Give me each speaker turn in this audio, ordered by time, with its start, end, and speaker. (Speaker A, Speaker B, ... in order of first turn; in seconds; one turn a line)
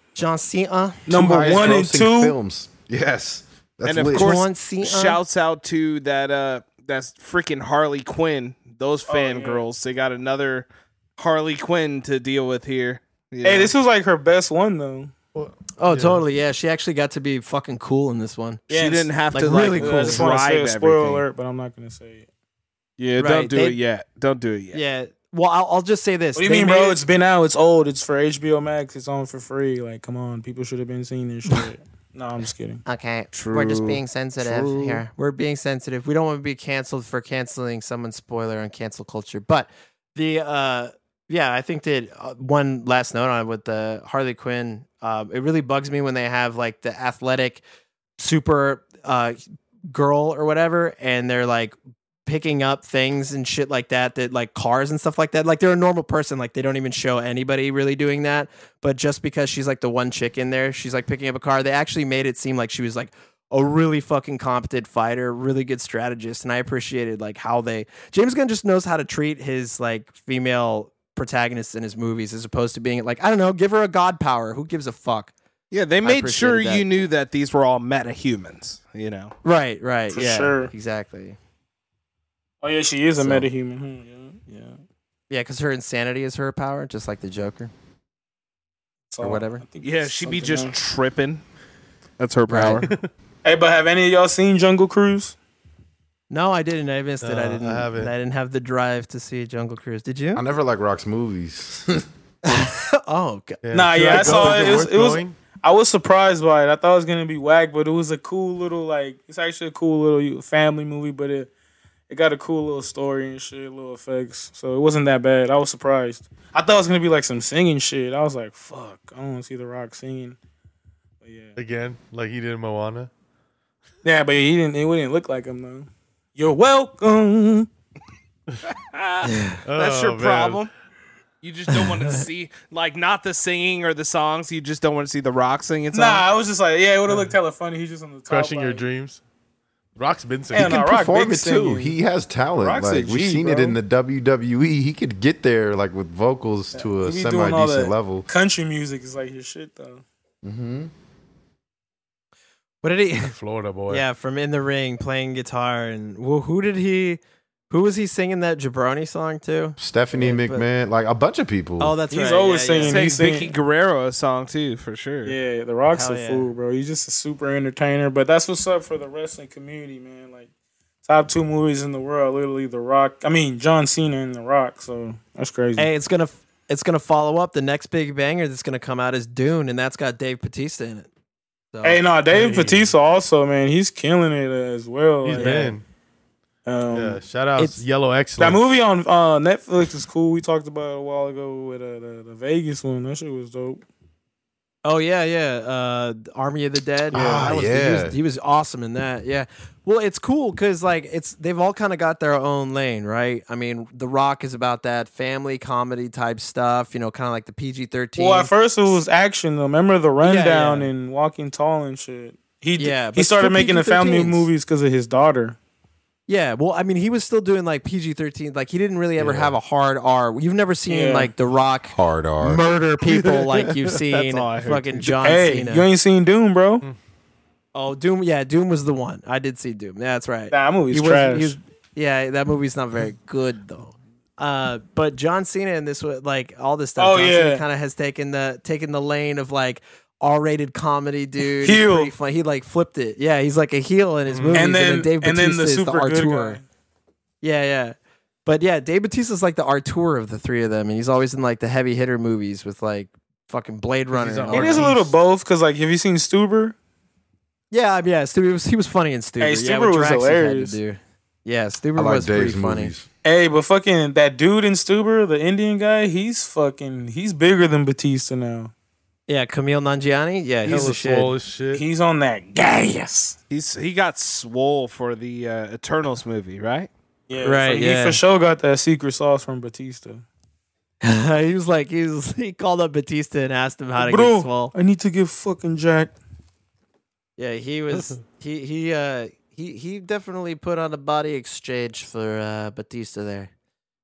Speaker A: 0.1-1.7
Speaker B: 1.1-2.3
Speaker C: 1.1-4.4
Speaker D: 3.9-13.7
Speaker A: 4.1-5.2
Speaker B: 9.1-9.7
Speaker B: 13.4-15.1
Speaker E: 15.3-16.2
Speaker A: 15.8-18.6
Speaker D: 18.7-21.2
Speaker B: 18.7-19.1
Speaker A: 19.3-20.3
Speaker B: 19.7-22.3
Speaker D: 23.0-24.8
Speaker A: 23.2-23.8
Speaker A: 24.7-27.0
Speaker B: 26.4-32.8
Speaker A: 32.9-47.6
Speaker D: 33.3-35.0
Speaker A: 48.2-51.7
Speaker A: 52.3-75.3
Speaker D: 75.7-79.3
Speaker A: 76.0-76.9
Speaker A: 79.4-81.4
Speaker B: 80.1-80.7
Speaker B: 82.6-84.8
Speaker A: 83.2-83.5
Speaker A: 85.3-87.7
Speaker B: 89.1-90.8
Speaker A: 89.2-89.6
Speaker D: 89.8-91.4
Speaker D: 92.2-92.9
Speaker A: 92.5-92.8
Speaker B: 93.4-95.4
Speaker A: 96.3-100.4
Speaker E: 97.2-98.1
Speaker C: 100.3-102.1
Speaker A: 102.5-104.8
Speaker E: 103.7-105.4
Speaker B: 103.7-111.5
Speaker B: 112.1-120.4
Speaker B: 121.2-121.5
Speaker E: 121.6-123.1
Speaker B: 124.0-127.7
Speaker D: 128.7-130.7
Speaker A: 129.3-129.6
Speaker E: 129.6-130.6
Speaker D: 131.4-136.2
Speaker A: 131.7-132.2
Speaker B: 135.9-138.8
Speaker E: 138.3-139.2
Speaker E: 140.0-140.8
Speaker B: 140.5-141.9
Speaker C: 140.6-148.3
Speaker B: 142.6-143.8
Speaker B: 146.7-150.0
Speaker C: 150.4-150.9
Speaker A: 152.8-153.3
Speaker E: 153.3-154.0
Speaker A: 153.9-160.7
Speaker C: 159.8-161.9
Speaker A: 161.8-163.0
Speaker B: 162.1-163.5
Speaker D: 162.8-165.4
Speaker B: 165.2-170.5
Speaker A: 165.9-166.5
Speaker B: 171.0-175.9
Speaker A: 175.8-181.1
Speaker A: 181.7-182.0
Speaker B: 181.8-185.7
Speaker E: 182.3-182.9
Speaker E: 185.2-185.8
Speaker A: 185.4-185.7
Speaker B: 186.7-187.2
Speaker E: 186.9-188.7
Speaker B: 188.4-193.8
Speaker A: 194.8-208.5
Speaker C: 197.1-198.2
Speaker B: 208.2-215.6
Speaker A: 210.2-210.9
Speaker A: 212.8-214.5
Speaker A: 216.3-225.9
Speaker C: 219.2-219.5
Speaker B: 220.9-221.3
Speaker C: 221.9-222.6
Speaker D: 223.1-225.3
Speaker B: 225.2-226.8
Speaker A: 227.7-246.6
Speaker B: 230.5-231.6
Speaker B: 237.0-237.6
Speaker B: 241.6-242.1
Speaker E: 244.3-244.7
Speaker B: 244.5-246.6
Speaker A: 247.4-247.9
Speaker A: 248.4-254.9
Speaker E: 254.1-255.1
Speaker B: 254.5-256.7
Speaker A: 257.7-262.9
Speaker B: 259.4-260.8
Speaker C: 261.9-263.1
Speaker B: 263.2-268.7
Speaker A: 269.3-271.3
Speaker E: 270.6-271.8
Speaker B: 271.7-273.4
Speaker D: 273.5-276.9
Speaker B: 277.3-280.2
Speaker A: 277.4-278.2
Speaker A: 281.0-284.7
Speaker B: 284.0-286.1
Speaker A: 287.4-293.5
Speaker E: 287.9-288.2